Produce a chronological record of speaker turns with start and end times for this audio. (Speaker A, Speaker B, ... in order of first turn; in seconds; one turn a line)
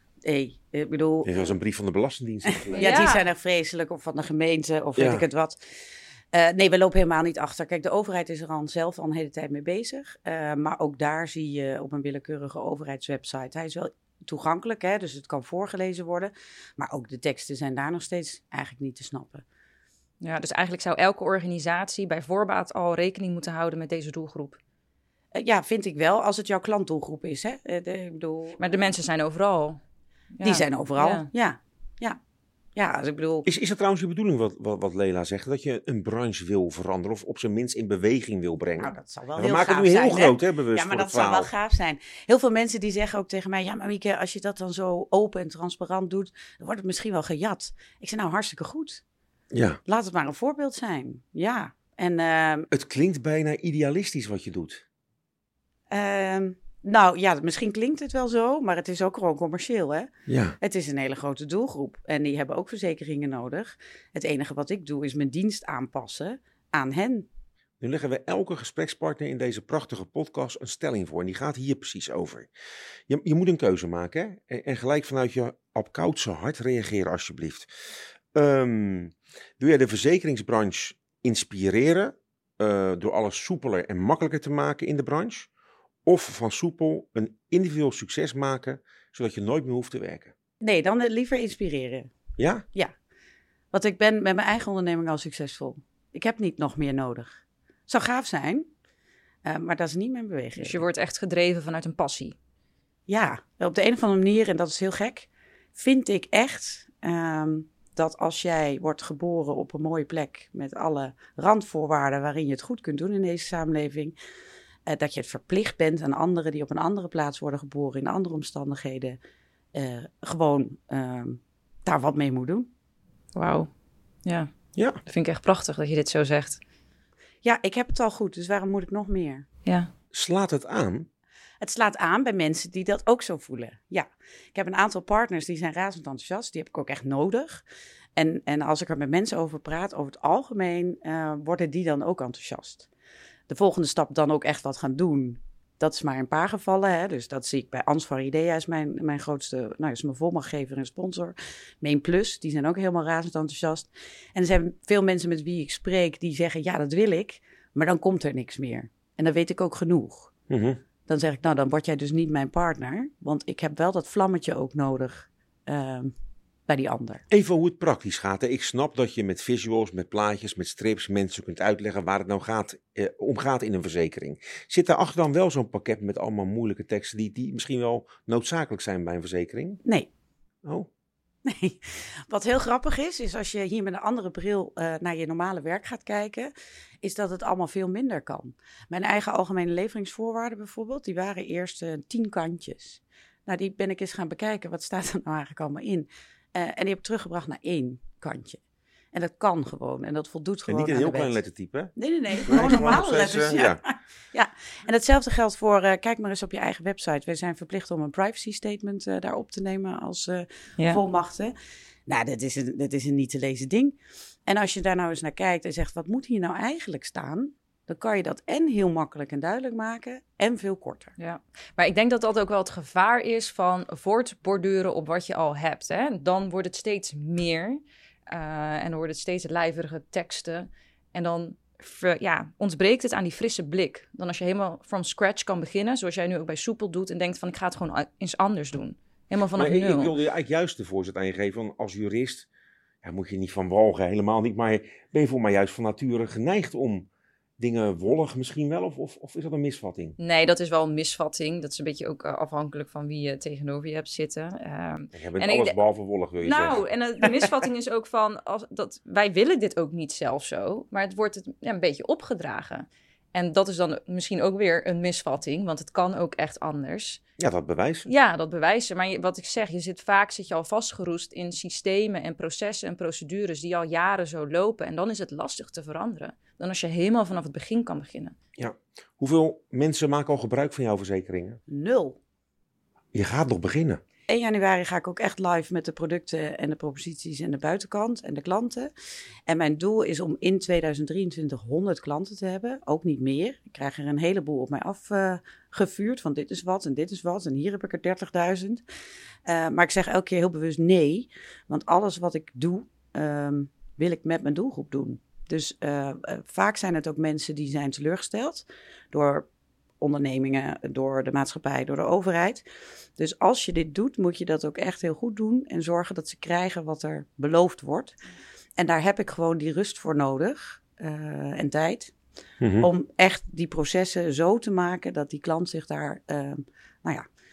Speaker A: 0.2-1.4
Speaker B: 1.2-3.0
Speaker A: 2.5-5.6
Speaker C: 2.8-3.2
Speaker B: 5.0-5.2
Speaker A: 6.3-19.4
Speaker C: 20.2-24.6
Speaker A: 25.3-28.7
Speaker C: 28.6-29.8
Speaker C: 30.4-31.3
Speaker A: 30.4-32.2
Speaker A: 32.8-33.5
Speaker B: 33.5-41.5
Speaker A: 38.8-49.0
Speaker B: 49.5-49.8
Speaker A: 49.9-52.7
Speaker B: 52.7-54.8
Speaker A: 55.9-67.3
Speaker B: 60.3-60.6
Speaker B: 67.8-72.5
Speaker B: 73.1-77.7
Speaker B: 78.3-85.5
Speaker B: 86.0-90.3
Speaker A: 90.6-92.1
Speaker B: 92.4-92.6
Speaker A: 93.7-98.7
Speaker A: 99.5-100.8
Speaker C: 100.6-102.4
Speaker A: 103.1-114.2
Speaker A: 114.9-119.2
Speaker A: 119.7-122.7
Speaker C: 123.3-123.7
Speaker C: 124.2-124.5
Speaker C: 125.0-126.6
Speaker A: 127.4-129.5
Speaker B: 130.1-131.1
Speaker A: 131.6-137.6
Speaker A: 138.2-142.9
Speaker A: 143.5-160.3
Speaker B: 160.5-160.8
Speaker A: 161.1-166.1
Speaker A: 166.7-167.2
Speaker B: 167.3-179.8
Speaker A: 181.4-198.6
Speaker A: 199.1-201.4
Speaker B: 200.7-201.9
Speaker A: 201.9-211.6
Speaker B: 202.5-203.8
Speaker A: 212.1-221.1
Speaker C: 221.2-240.1
Speaker B: 239.6-242.5
Speaker B: 243.0-247.1
Speaker B: 247.6-250.2
Speaker C: 250.2-255.8
Speaker B: 255.1-256.8
Speaker C: 256.4-267.2
Speaker B: 267.4-268.1
Speaker C: 268.1-278.4
Speaker B: 278.6-281.6
Speaker A: 281.7-282.2
Speaker B: 283.1-284.0
Speaker A: 284.3-288.9
Speaker A: 289.5-298.8
Speaker A: 299.5-309.5
Speaker A: 310.0-312.6
Speaker A: 313.2-318.1
Speaker A: 318.8-322.1
Speaker B: 322.6-322.9
Speaker A: 322.8-327.2